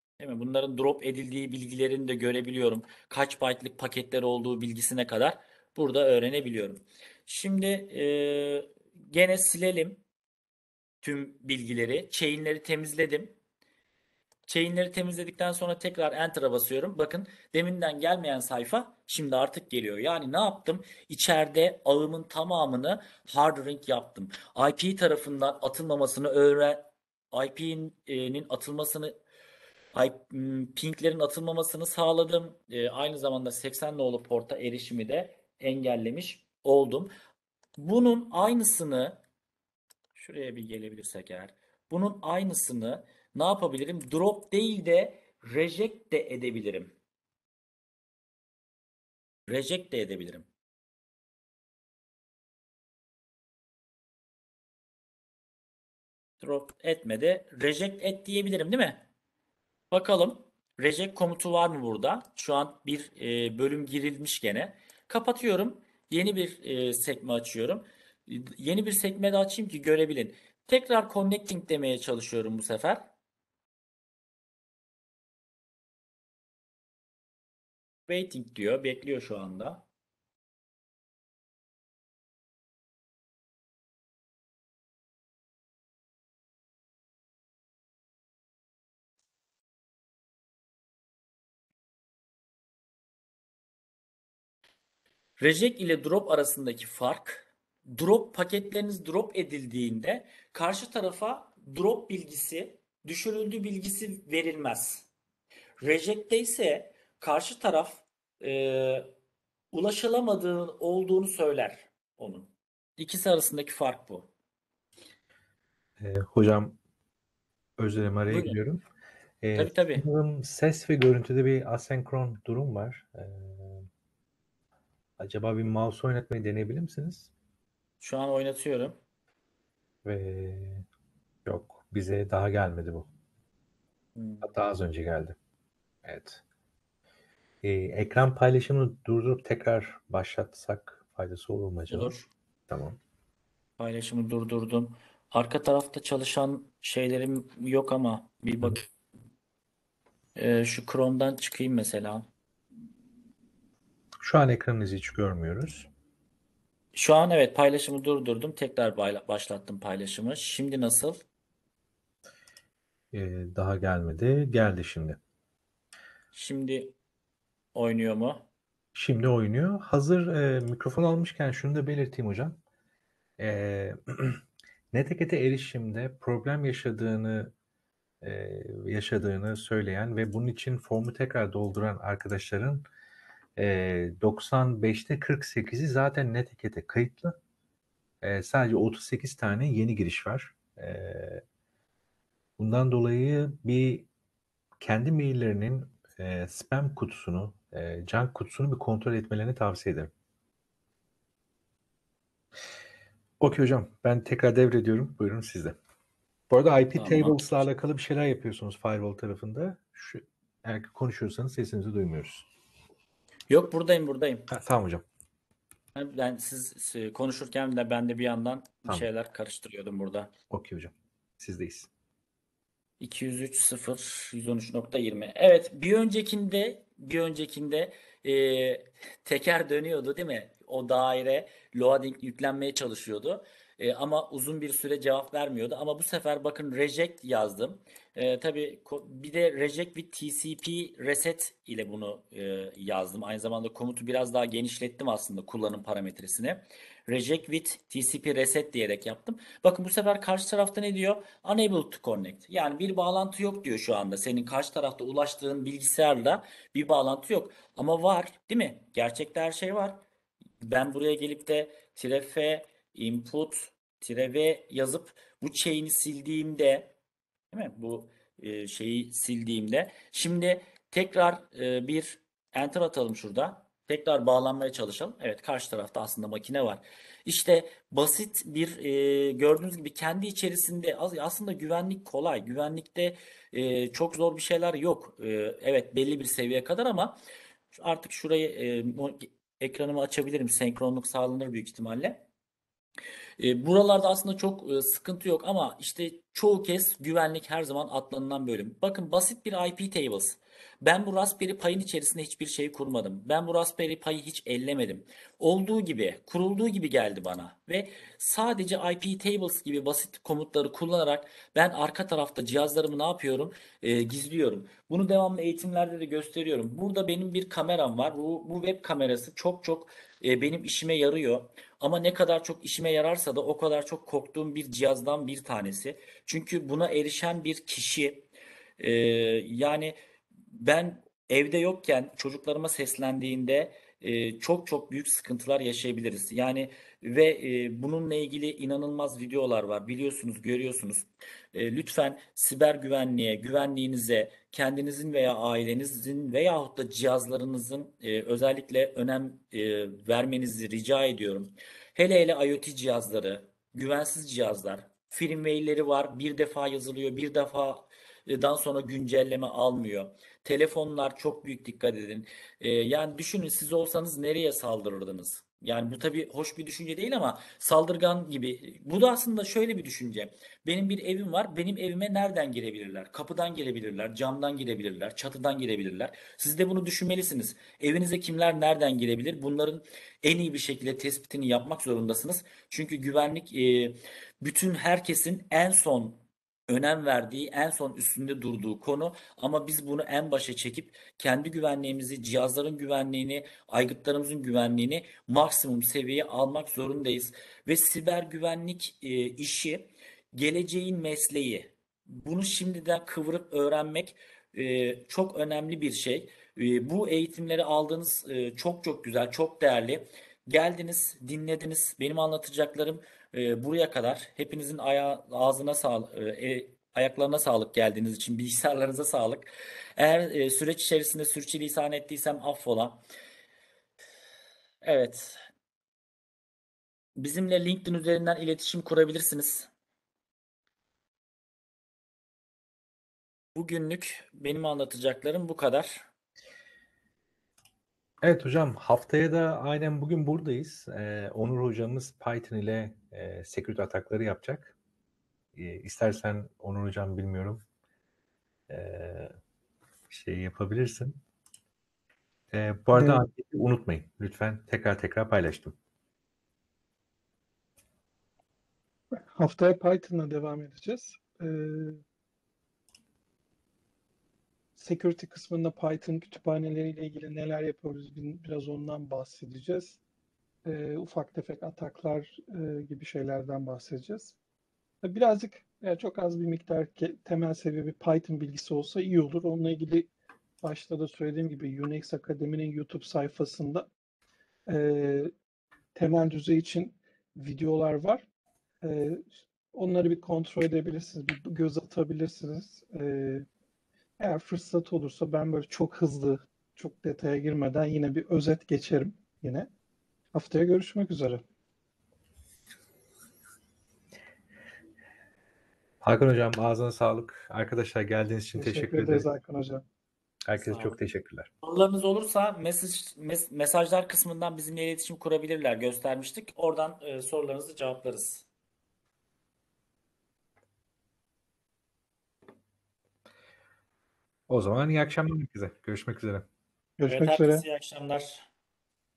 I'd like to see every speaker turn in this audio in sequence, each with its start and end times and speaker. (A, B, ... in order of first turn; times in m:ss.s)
0:00.2-0:10.0 A
0:11.0-0:13.3 A
0:14.5-0:29.2 A
0:29.9-0:37.1 A
0:37.8-0:39.2 A
0:40.1-0:46.9 A
0:49.5-0:50.4 A
0:56.4-0:59.1 A
0:59.9-1:13.0 A
1:18.1-1:19.8 A
1:35.4-1:45.1 A
1:45.8-1:49.1 A
1:49.7-1:54.3 A
1:56.0-1:56.8 B
1:57.8-1:58.8 B
1:58.3-1:58.6 A
1:59.4-2:03.9 B
1:59.5-2:00.0 A
2:05.2-2:07.3 B
2:08.0-2:09.0 A
2:10.0-2:10.8 B
2:11.4-2:13.1 B
2:14.2-2:14.5 A
2:14.4-2:15.4 B
2:16.0-2:16.4 B
2:17.6-2:22.2 B
2:21.9-2:22.3 A
2:22.7-2:23.0 B
2:23.8-2:28.9 A
2:30.4-2:32.3 A
2:34.2-2:35.9 B
2:36.9-2:41.2 A
2:43.1-2:45.2 B
2:46.3-2:47.0 A
2:47.7-2:48.5 A
2:48.9-2:52.6 B
2:53.4-2:57.5 B
2:58.2-3:02.8 B
3:03.6-3:07.4 B
3:08.2-3:11.4 B
3:12.6-3:14.1 B
3:14.8-3:20.1 B
3:23.4-3:25.8 B
3:26.5-3:32.5 B
3:26.9-3:27.4 A
3:33.5-3:34.5 A
3:34.5-3:35.0 B
3:35.9-3:40.3 A
3:40.5-3:41.9 B
3:43.0-4:20.0 A
4:20.6-4:26.9 A
4:27.5-4:47.2 A
4:47.7-4:52.3 A
4:53.4-5:28.3 A
5:28.8-5:29.9 A
5:30.5-7:03.0 A
7:04.8-7:05.4 A
7:07.2-7:09.7 A
7:13.5-7:16.0 A
7:18.2-7:24.7 B
7:25.5-7:27.6 B
7:28.7-7:29.4 B
7:30.1-7:31.2 B
7:32.5-7:35.7 B
7:32.9-7:33.2 C
7:39.3-7:42.0 C
7:44.8-7:50.0 C
7:50.6-7:54.3 C
7:55.0-8:00.1 C
8:00.6-8:03.9 C
8:04.7-8:05.3 C
8:05.9-8:08.2 C
8:08.8-8:13.4 C
8:14.2-8:19.7 C
8:20.3-8:21.4 C
8:26.0-8:29.2 B
8:28.5-8:29.8 C
8:30.4-8:31.5 B
8:30.6-8:31.0 A
8:31.6-8:38.4 A
8:44.5-8:46.4 B
8:47.0-8:47.6 C
8:47.1-8:48.4 A